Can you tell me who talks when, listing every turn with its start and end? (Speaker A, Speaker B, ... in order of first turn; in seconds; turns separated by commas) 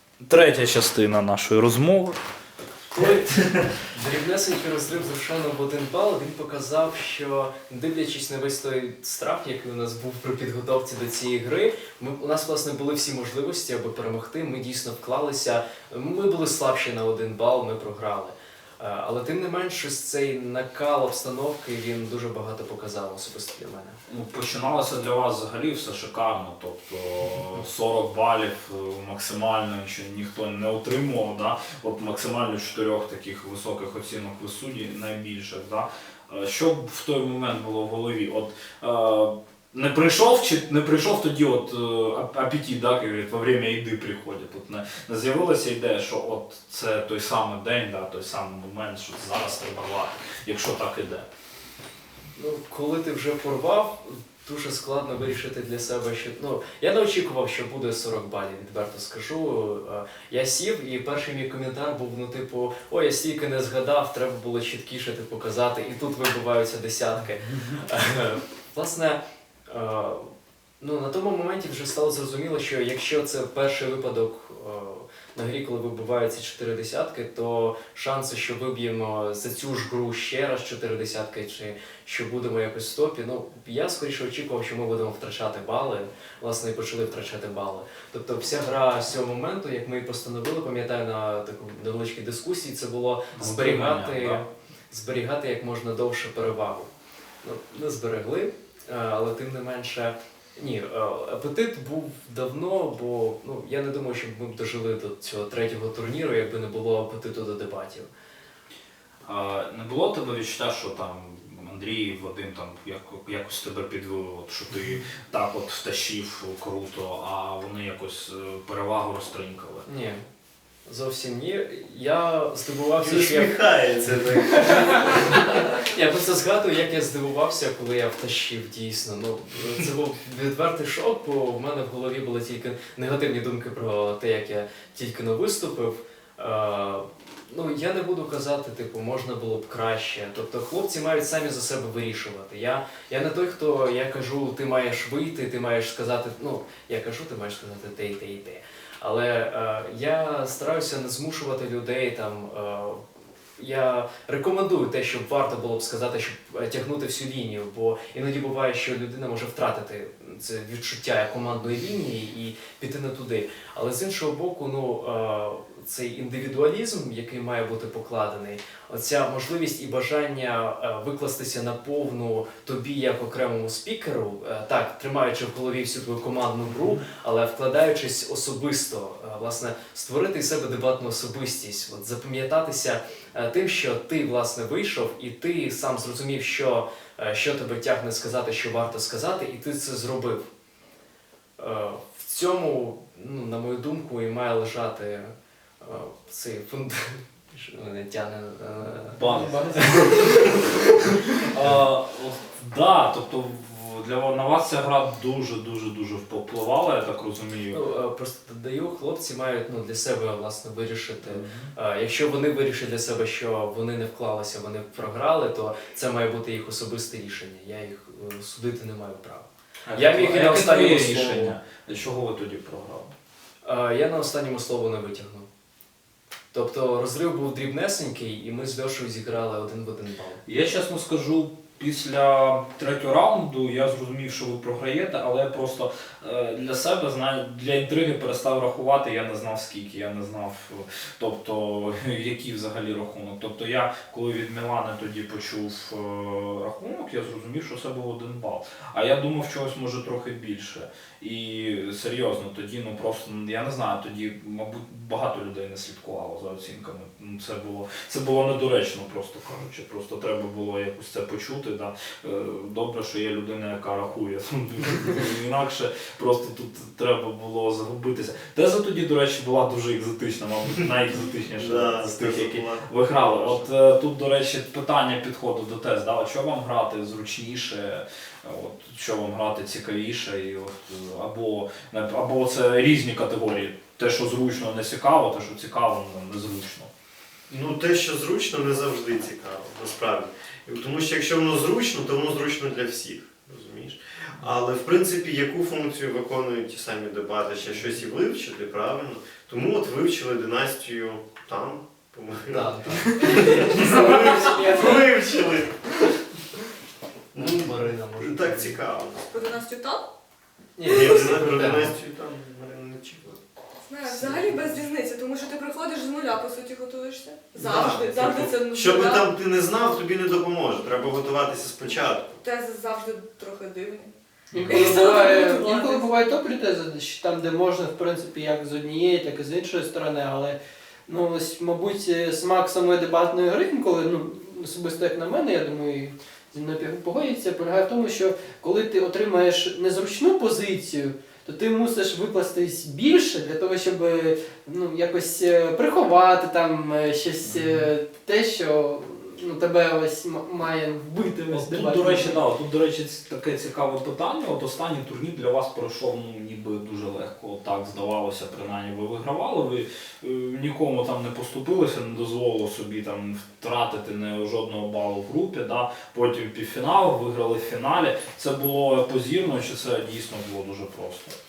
Speaker A: 0.2-2.2, Speaker B: 2.9-24.0, Speaker A: 24.1-51.3, Speaker B: 52.4-70.3, Speaker B: 70.8-96.9, Speaker A: 93.3-94.4, Speaker B: 97.4-108.1, Speaker A: 109.3-119.8, Speaker B: 119.9-120.2, Speaker B: 120.9-123.5, Speaker C: 123.0-125.1, Speaker B: 124.8-153.0, Speaker B: 153.6-190.4, Speaker B: 191.6-199.2, Speaker A: 199.0-200.1, Speaker D: 199.3-200.6, Speaker B: 199.8-201.4, Speaker A: 201.4-207.8, Speaker B: 207.7-221.6, Speaker A: 211.2-211.7, Speaker A: 219.9-223.1, Speaker B: 223.7-225.5, Speaker B: 226.5-230.4, Speaker A: 230.5-286.9, Speaker C: 271.6-273.7, Speaker C: 287.5-305.7, Speaker B: 302.5-305.0, Speaker C: 307.3-309.2, Speaker B: 307.4-308.8, Speaker E: 309.3-310.1, Speaker B: 310.8-311.9, Speaker C: 310.9-313.4, Speaker E: 313.8-319.3, Speaker C: 317.6-322.4, Speaker E: 322.4-326.1, Speaker A: 324.5-324.9, Speaker D: 324.6-352.4, Speaker A: 347.5-347.9, Speaker A: 351.5-371.4